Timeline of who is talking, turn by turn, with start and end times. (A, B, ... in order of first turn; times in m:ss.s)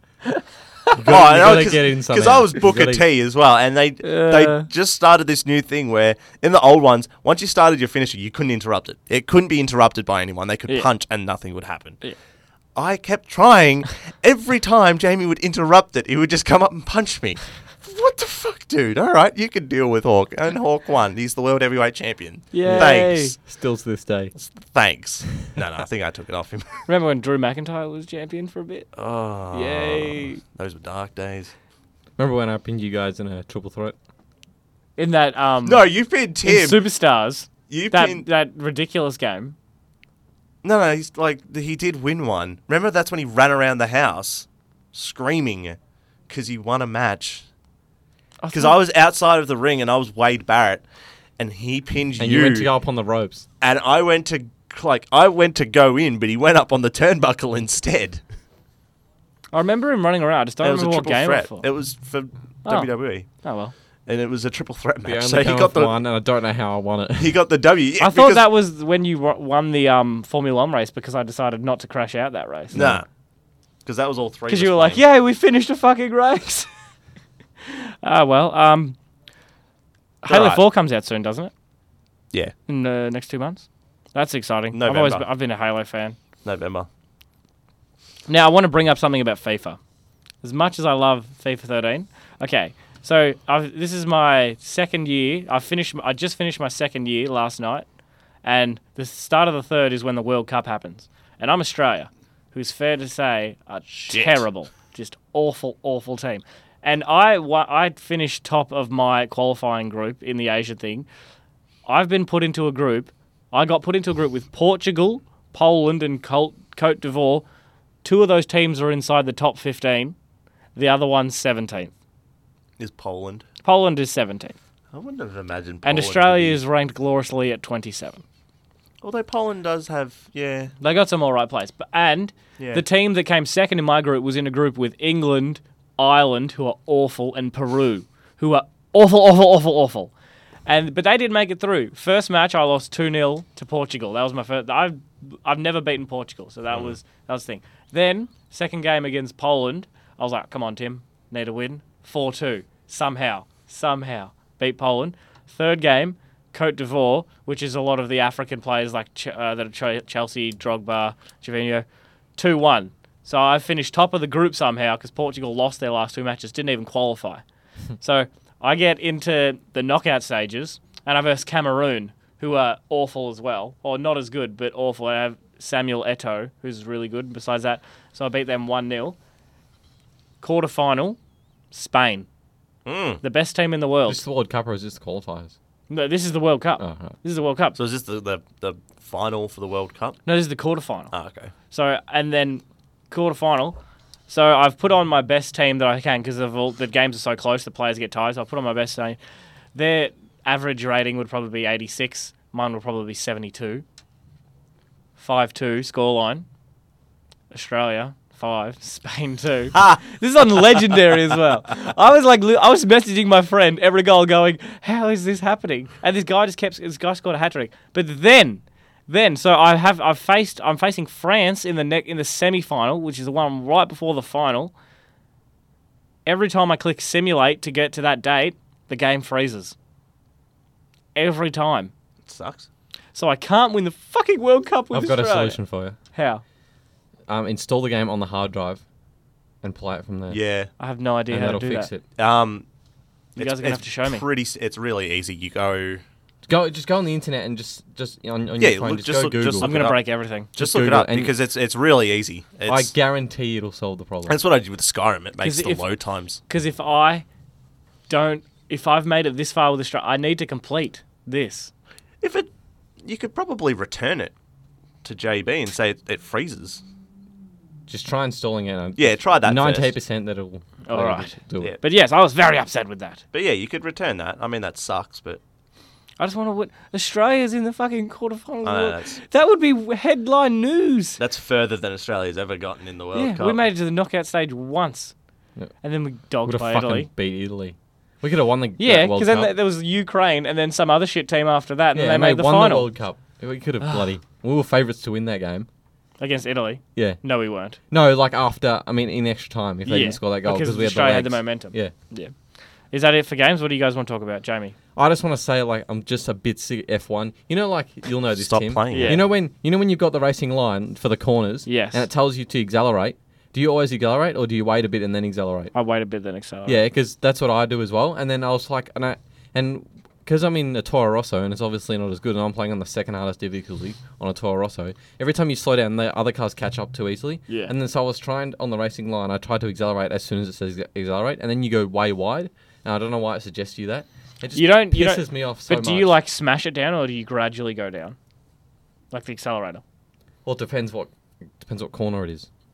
0:00.2-0:00.9 A
0:01.0-0:03.0 B
0:01.0-0:12.0 C
0:04.0-0:04.7 A
0:12.8-0:23.4 C
0:22.5-0:23.4 A
0:22.6-0:24.3 B
0:24.3-0:26.8 C
0:26.9-0:28.9 A
0:28.9-0:31.5 C
0:29.5-0:30.4 A
0:32.2-0:34.0 B
0:35.0-0:35.8 A
0:35.6-0:36.8 C
0:36.4-0:39.5 A
0:37.7-0:38.3 C
0:40.6-0:45.8 C
0:46.3-0:47.4 C
0:48.4-0:48.7 A
0:48.5-0:50.8 C
0:51.4-0:52.7 C
0:52.2-0:53.4 B
0:53.6-0:58.2 C
0:59.5-1:01.6 A
1:00.6-1:03.3 C
1:02.6-1:03.7 A
1:04.1-1:05.9 C
1:05.0-1:07.4 B
1:07.2-1:08.4 C
1:08.0-1:12.8 A
1:12.7-1:13.1 C
1:12.7-1:13.0 B
1:13.8-1:15.0 C
1:14.5-1:16.7 A
1:17.6-1:19.0 A
1:20.2-1:21.5 A
1:20.3-1:20.6 C
1:22.7-1:26.2 A
1:24.7-1:25.2 C
1:26.4-1:26.9 C
1:28.3-1:29.8 A
1:30.4-1:37.8 A
1:38.4-1:51.1 A
1:43.9-1:44.4 C
1:51.8-1:57.4 A
1:58.0-2:00.1 A
2:00.7-2:01.9 A
2:02.8-2:03.4 C
2:03.6-2:04.6 A
2:04.9-2:06.6 C
2:05.8-2:08.2 A
2:09.0-2:10.7 C
2:10.8-2:20.1 A
2:12.6-2:12.8 C
2:20.6-2:41.8 A
2:26.7-2:27.0 C
2:42.4-2:47.4 A
2:48.0-2:59.2 A
3:00.4-3:01.2 A
3:01.7-3:02.3 A
3:02.8-3:03.2 C
3:03.2-3:04.2 A
3:04.0-3:05.5 B
3:05.9-3:07.8 A
3:06.8-3:07.1 B
3:07.7-3:10.2 C
3:10.2-3:11.1 A
3:11.1-3:11.5 C
3:11.7-3:13.8 A
3:14.3-3:19.2 A
3:19.7-3:23.8 A
3:25.2-3:26.4 A
3:27.5-3:44.7 A
3:46.2-3:49.7 A
3:51.1-3:51.9 A
3:52.2-3:52.7 C
3:53.1-3:55.6 A
3:54.9-3:56.0 B
3:56.1-3:56.4 A
3:57.3-3:58.8 B
3:59.6-4:00.4 B
4:00.3-4:00.7 C
4:00.8-4:01.9 A
4:01.3-4:02.0 B
4:02.2-4:02.6 C
4:03.4-4:06.0 C
4:03.4-4:04.2 A
4:06.4-4:09.8 B
4:08.6-4:10.0 C
4:09.6-4:10.5 A
4:10.5-4:12.9 C
4:10.6-4:11.3 B
4:12.7-4:14.4 B
4:14.3-4:16.4 C
4:15.4-4:15.8 A
4:16.5-4:17.2 A
4:18.1-4:21.7 A
4:22.2-4:22.5 C
4:23.0-4:24.3 C
4:25.0-4:26.8 C
4:27.9-4:31.8 B
4:29.0-4:29.9 C
4:30.8-4:33.2 A
4:33.3-4:35.4 C
4:36.2-4:41.2 A
4:38.6-4:39.2 C
4:41.2-4:43.6 C
4:43.1-4:45.1 A
4:45.8-4:47.1 A
4:46.4-4:49.5 B
4:48.8-4:52.9 A
4:51.9-4:55.7 B
4:56.2-4:57.8 A
4:57.9-5:01.9 B
4:59.8-5:02.3 A
5:02.9-5:04.8 A
5:04.9-5:15.7 B
5:08.4-5:09.2 C
5:08.9-5:09.2 A
5:11.6-5:12.0 A
5:15.7-5:16.8 A
5:16.6-5:36.2 B
5:27.5-5:27.7 A
5:34.5-5:38.2 A
5:39.1-5:39.8 A
5:40.4-5:42.5 B